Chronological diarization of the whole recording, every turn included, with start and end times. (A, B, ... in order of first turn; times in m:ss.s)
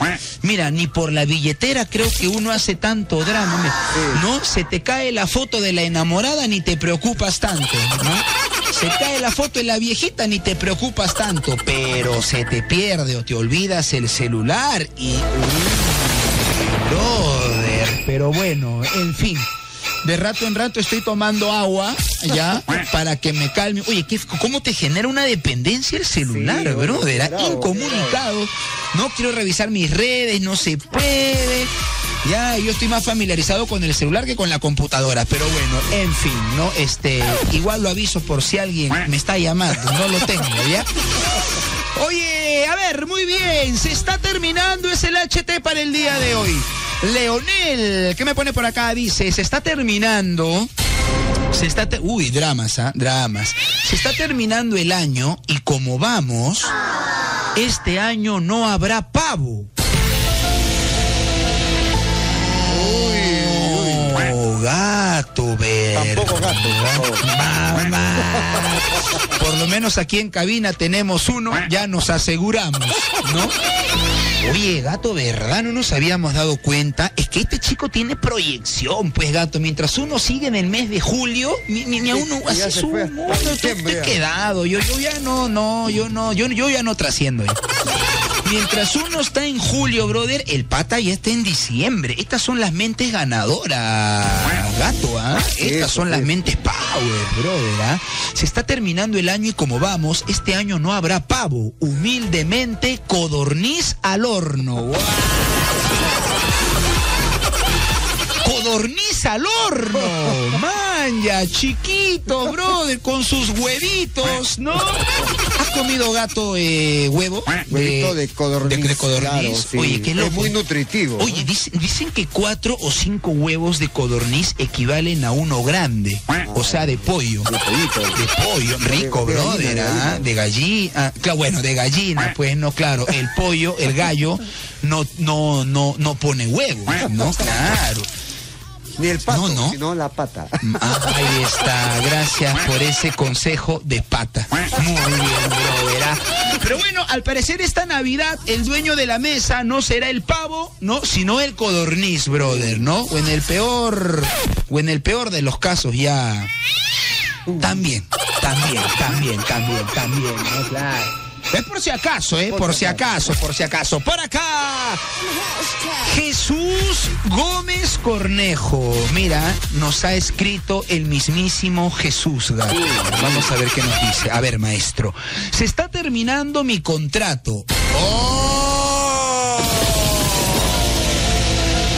0:00.4-0:19.5 A
0:03.9-0:04.2 B
0:20.0-0:31.7 A
0:26.2-0:28.2 B
0:32.2-0:41.4 A
0:41.9-0:50.7 A
0:51.5-0:56.7 A
0:57.5-0:59.7 A
1:02.3-1:13.6 A
1:02.6-1:04.2 B
1:05.9-1:07.3 B
1:14.4-1:27.6 A
1:22.1-1:24.2 B
1:28.4-1:46.0 A
1:35.6-1:36.3 B
1:48.4-2:00.5 A
1:57.7-2:01.5 B
2:01.2-2:07.5 A
2:06.4-2:08.2 B
2:08.1-2:18.1 A
2:08.9-2:10.2 B
2:19.0-2:20.7 B
2:19.3-2:19.8 A
2:20.6-2:36.5 A
2:32.3-2:32.8 B
2:37.5-2:37.8 B
2:37.6-2:45.0 A
2:42.5-2:43.1 B
2:45.6-3:01.0 A
2:52.7-2:53.5 B